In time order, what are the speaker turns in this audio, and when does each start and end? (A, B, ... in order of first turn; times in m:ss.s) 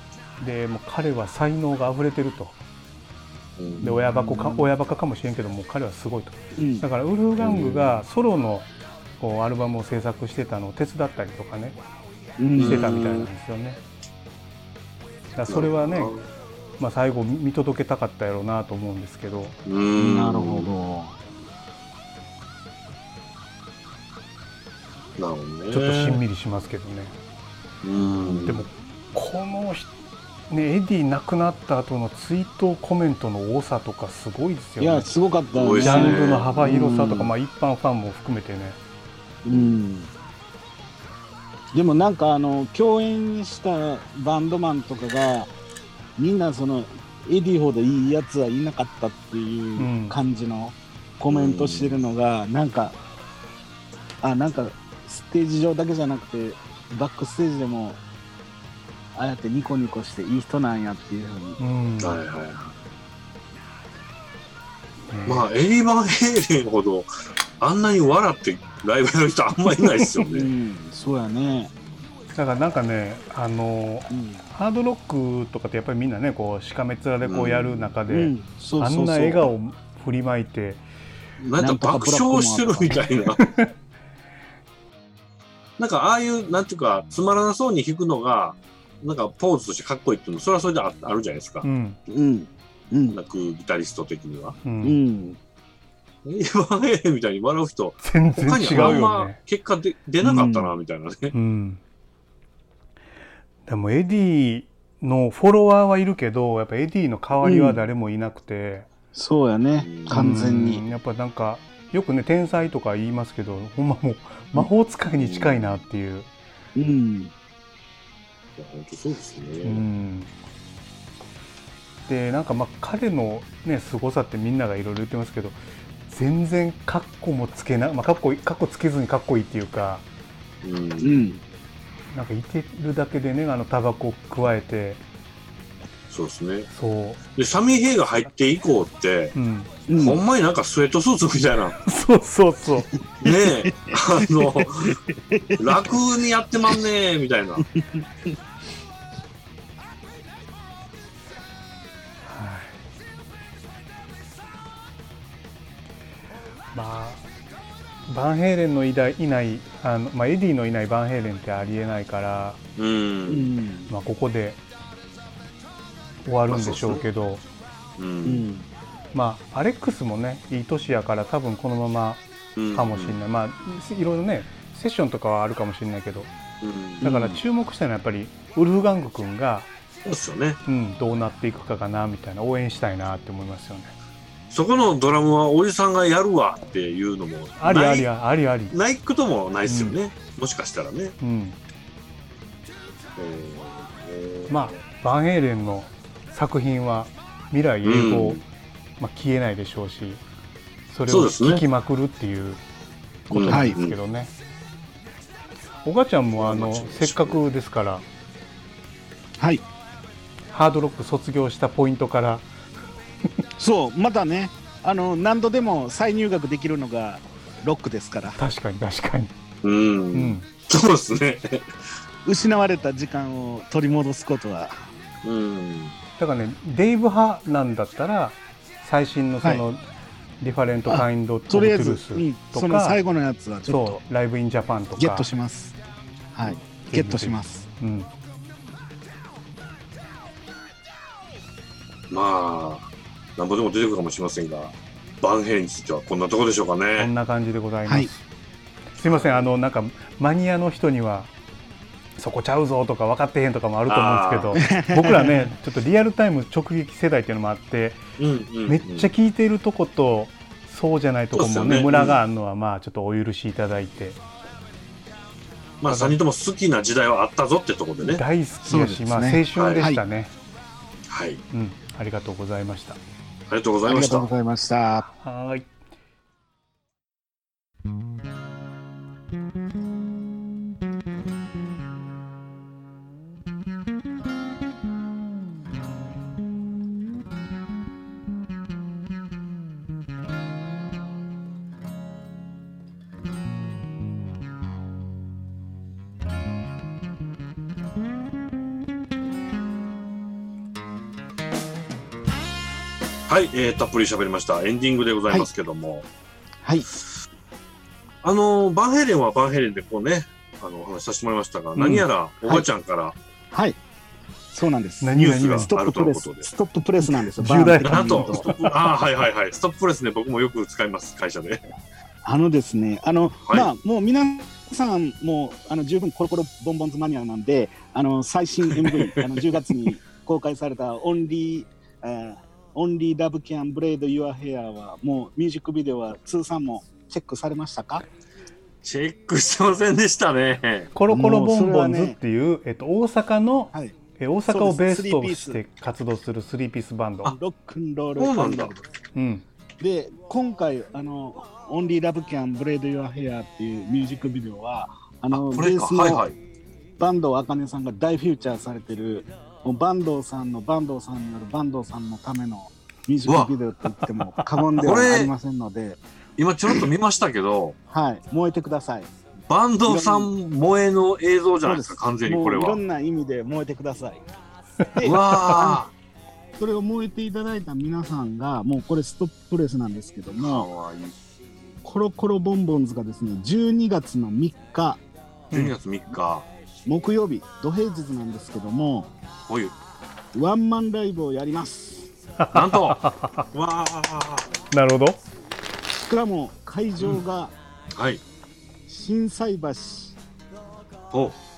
0:00.4-0:02.6 A
0:03.6-0:03.8 B
0:03.8-0:04.7 C
0:03.8-0:08.7 A
0:06.6-0:06.8 C
0:07.4-0:08.0 B
0:09.2-0:11.8 A
0:12.4-0:12.8 C
0:12.6-0:13.3 B
0:12.6-0:13.8 A
0:15.3-0:16.1 A
0:15.4-0:16.2 B
0:16.8-0:19.6 A
0:19.6-0:20.7 B
0:20.0-0:21.1 C
0:25.2-0:26.2 B
0:25.7-0:27.1 A
0:27.8-0:28.6 B
0:28.4-0:29.9 A
0:30.5-0:35.1 A
0:34.8-0:37.2 C
0:35.5-0:37.3 B
0:35.8-0:38.8 A
0:39.4-0:40.1 C
0:39.5-0:39.8 B
0:41.7-0:45.5 C
0:46.2-0:53.0 C
0:49.8-0:50.1 A
0:51.3-0:52.0 B
0:54.2-0:58.0 C
0:59.1-1:01.6 C
1:01.6-1:02.2 A
1:02.0-1:02.7 B
1:05.1-1:05.5 A
1:05.2-1:07.1 B
1:07.6-1:10.5 B
1:09.8-1:10.2 A
1:10.3-1:11.7 C
1:12.3-1:20.8 A
1:14.1-1:14.5 C
1:17.2-1:17.9 B
1:18.1-1:19.5 C
1:21.4-1:23.4 B
1:21.6-1:23.1 C
1:23.4-1:23.7 A
1:25.8-1:31.6 B
1:31.6-1:32.0 A
1:32.1-1:33.2 C
1:33.1-1:34.6 B
1:34.6-1:35.0 A
1:34.8-1:35.4 C
1:36.2-1:41.3 B
1:38.0-1:39.4 A
1:38.7-1:39.0 C
1:40.2-1:40.7 C
1:41.3-1:41.8 A
1:43.6-1:48.9 A
1:47.4-1:47.8 C
1:49.1-1:50.8 C
1:49.8-1:50.3 B
1:50.1-1:56.3 A
1:55.1-1:55.8 B
1:56.7-1:57.3 C
1:58.6-1:59.8 B
1:59.6-2:00.3 A
2:02.1-2:10.0 A
2:10.6-2:11.1 B
2:11.0-2:11.4 C
2:12.1-2:15.0 A
2:16.1-2:16.7 B
2:16.7-2:17.2 A
2:17.4-2:19.3 B
2:19.3-2:19.7 A
2:19.9-2:20.2 C
2:19.9-2:21.8 B
2:21.8-2:23.0 A
2:23.0-2:26.0 C
2:23.2-2:25.0 B
2:25.6-2:27.7 B
2:27.7-2:28.3 C
2:32.2-2:32.8 A
2:36.7-2:37.2 A
2:38.1-2:42.6 A
2:42.8-2:43.6 B
2:43.3-2:43.9 C
2:43.9-2:44.6 A
2:46.2-2:47.4 A
2:46.5-2:47.0 B
2:48.0-2:48.5 B
2:48.2-2:48.6 C
2:49.1-2:52.2 A
2:52.6-2:53.2 B
2:52.7-2:56.3 A
2:56.6-2:57.1 B
2:57.0-2:59.7 A
2:57.0-2:57.4 C
3:00.0-3:00.6 B
3:00.6-3:03.9 A
3:04.5-3:08.1 B
3:07.6-3:08.7 A
3:08.7-3:11.1 B
3:09.6-3:10.0 A
3:11.2-3:11.6 A
3:13.2-3:14.6 B
3:14.5-3:18.4 A
3:17.8-3:18.4 B
3:19.0-3:20.2 A
3:20.9-3:22.6 A
3:21.1-3:21.6 B
3:23.3-3:24.0 B
3:23.3-3:24.3 A
3:23.3-3:23.8 C
3:25.8-3:28.0 A
3:26.3-3:27.4 B
3:29.4-3:29.6 C
3:30.5-3:32.5 A
3:33.6-3:38.4 C
3:38.4-3:39.3 A
3:39.6-3:41.9 B
3:40.1-3:40.4 A
3:42.2-3:44.8 C
3:45.2-3:45.9 B
3:46.2-3:49.8 A
3:50.4-3:53.0 A
3:50.9-3:54.0 C
3:53.7-3:55.3 A
3:55.0-3:55.7 C
3:56.3-3:57.7 C
3:56.9-3:58.1 A
4:02.1-4:07.1 B
4:07.0-4:08.2 A
4:09.0-4:11.3 A
4:09.1-4:09.5 B
4:12.2-4:18.0 A
4:13.9-4:14.6 B
4:14.6-4:15.5 C
4:18.2-4:19.1 B
4:18.6-4:24.2 A
4:21.3-4:22.2 B
4:25.8-4:28.2 B
4:25.9-4:26.2 A
4:28.0-4:30.3 A
4:28.6-4:30.0 C
4:29.5-4:29.8 B
4:31.1-4:31.4 B
4:31.5-4:33.0 A
4:33.5-4:34.3 B
4:33.8-4:35.1 C
4:35.2-4:35.7 A
5:03.3-5:06.1 B
5:06.6-5:06.9 C
5:08.2-5:13.1 B
5:11.8-5:12.0 A
5:13.5-5:13.8 C
5:14.5-5:18.6 C
5:15.0-5:15.7 A
5:15.1-5:16.5 B
5:17.0-5:18.5 A
5:17.8-5:21.6 B
5:22.2-5:38.0 C
5:28.7-5:29.5 B
5:38.8-5:40.9 B
5:40.9-5:47.3 A
5:41.1-5:42.2 C
5:44.5-5:45.6 C
5:47.3-5:48.8 C
5:48.2-5:48.7 B
5:49.1-5:49.4 A
5:49.8-5:56.2 C
5:55.3-5:56.4 B
5:57.0-6:06.0 C
6:03.3-6:03.5 B
6:04.7-6:05.3 B
6:06.4-6:07.8 B
6:07.9-6:09.1 C
6:09.5-6:12.8 B
6:09.8-6:10.3 C
6:11.6-6:14.2 C
6:14.9-6:15.8 C
6:15.0-6:15.9 B
6:16.6-6:20.7 C
6:20.4-6:21.2 B
6:21.8-6:25.0 C
6:25.5-6:26.5 B
6:26.8-6:29.1 C
6:29.5-6:29.7 B
6:30.3-6:32.1 C
6:32.4-6:33.5 A
6:32.5-6:33.0 B
6:33.5-6:34.5 B
6:34.7-6:35.2 A
6:35.9-6:37.5 C
6:37.9-6:38.2 B
6:38.9-6:40.2 C
6:41.1-6:41.4 B